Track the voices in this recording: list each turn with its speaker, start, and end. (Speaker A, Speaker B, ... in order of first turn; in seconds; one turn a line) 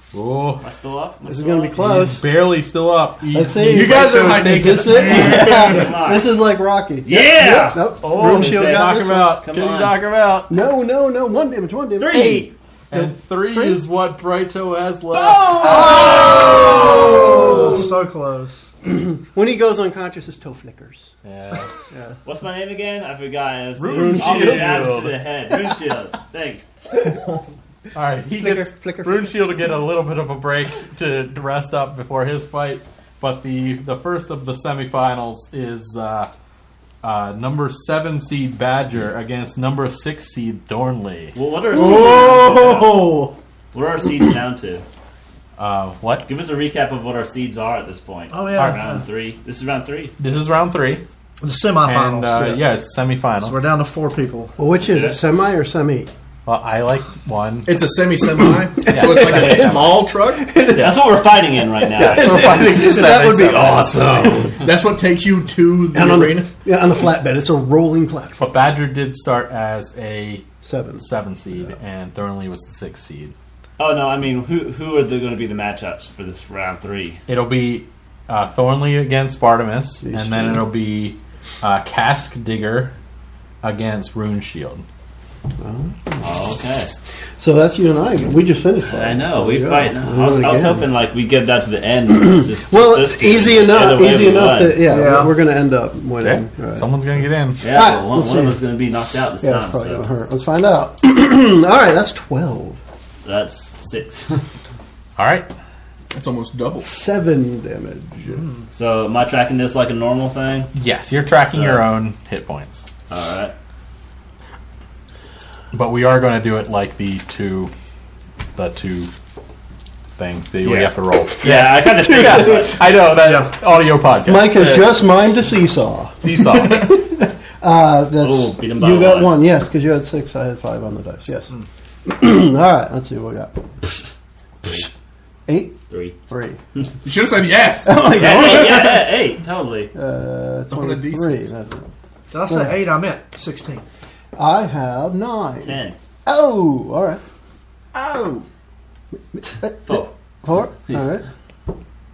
Speaker A: 0.1-0.6
Speaker B: 0.6-1.8
Speaker C: 1.2-2.2
Speaker A: 1.8-5.6
Speaker C: 3.3-9.4
Speaker D: 3.6-5.6
Speaker B: 5.0-6.3
Speaker B: 7.0-10.0
Speaker A: 8.0-10.6
Speaker C: 10.5-13.8
Speaker B: 12.0-12.5
Speaker A: 12.9-17.1
Speaker B: 15.1-17.5
Speaker C: 15.5-17.9
Speaker E: 17.0-18.7
Speaker C: 18.8-21.1
Speaker A: 21.2-21.7
Speaker C: 21.9-22.2
Speaker B: 22.2-26.7
Speaker A: 23.8-25.1
Speaker C: 23.9-24.9
Speaker C: 26.9-27.3
Speaker A: 27.9-36.3
Speaker C: 28.3-29.7
Speaker A: 37.0-41.4
Speaker B: 41.3-43.1
Speaker D: 41.7-43.3
Speaker E: 41.8-42.3
Speaker B: 43.7-44.8
Speaker A: 45.6-46.3
Speaker B: 46.2-50.1
Speaker E: 48.3-49.0
Speaker A: 50.2-51.0
Speaker E: 51.4-52.6
Speaker A: 51.8-53.7
Speaker E: 53.4-54.5
Speaker C: 54.6-56.1
Speaker B: 54.9-55.2
Speaker A: 56.5-57.8
Speaker D: 57.6-60.5
Speaker C: 58.7-61.0
Speaker A: 58.9-60.0
Speaker B: 60.7-62.3
Speaker A: 60.7-61.0
Speaker C: 61.8-64.6
Speaker A: 62.0-64.3
Speaker D: 62.4-63.0
Speaker D: 64.6-66.5
Speaker C: 65.9-68.5
Speaker A: 68.4-70.5
Speaker C: 70.6-71.7
Speaker A: 71.0-73.3
Speaker B: 73.8-77.2
Speaker A: 77.3-82.9
Speaker C: 80.0-80.6
Speaker A: 83.6-84.8
Speaker C: 85.6-86.3
Speaker B: 86.2-86.9
Speaker C: 87.4-90.9
Speaker B: 88.9-94.8
Speaker C: 92.2-96.9
Speaker E: 94.8-95.3
Speaker A: 96.2-97.6
Speaker C: 97.6-98.6
Speaker B: 97.6-100.0
Speaker C: 99.4-102.8
Speaker B: 103.2-104.4
Speaker A: 105.2-105.5
Speaker D: 106.1-106.9
Speaker C: 106.8-108.4
Speaker B: 108.7-110.7
Speaker A: 110.7-112.9
Speaker B: 111.5-111.9
Speaker B: 113.1-113.5
Speaker A: 115.7-117.7
Speaker A: 118.5-119.1
Speaker A: 120.2-125.1
Speaker B: 120.6-122.8
Speaker C: 122.1-122.4
Speaker E: 123.2-123.5
Speaker C: 124.2-131.5
Speaker A: 126.2-127.0
Speaker B: 128.2-129.3
Speaker C: 132.0-133.6
Speaker C: 135.5-136.6
Speaker B: 135.9-136.1
Speaker D: 137.0-138.2
Speaker C: 137.8-139.2
Speaker B: 138.1-139.9
Speaker C: 139.9-141.8
Speaker D: 140.7-141.5
Speaker E: 142.3-143.8
Speaker C: 142.5-142.8
Speaker C: 144.3-147.2
Speaker B: 145.6-145.9
Speaker C: 149.3-151.2
Speaker B: 149.8-150.1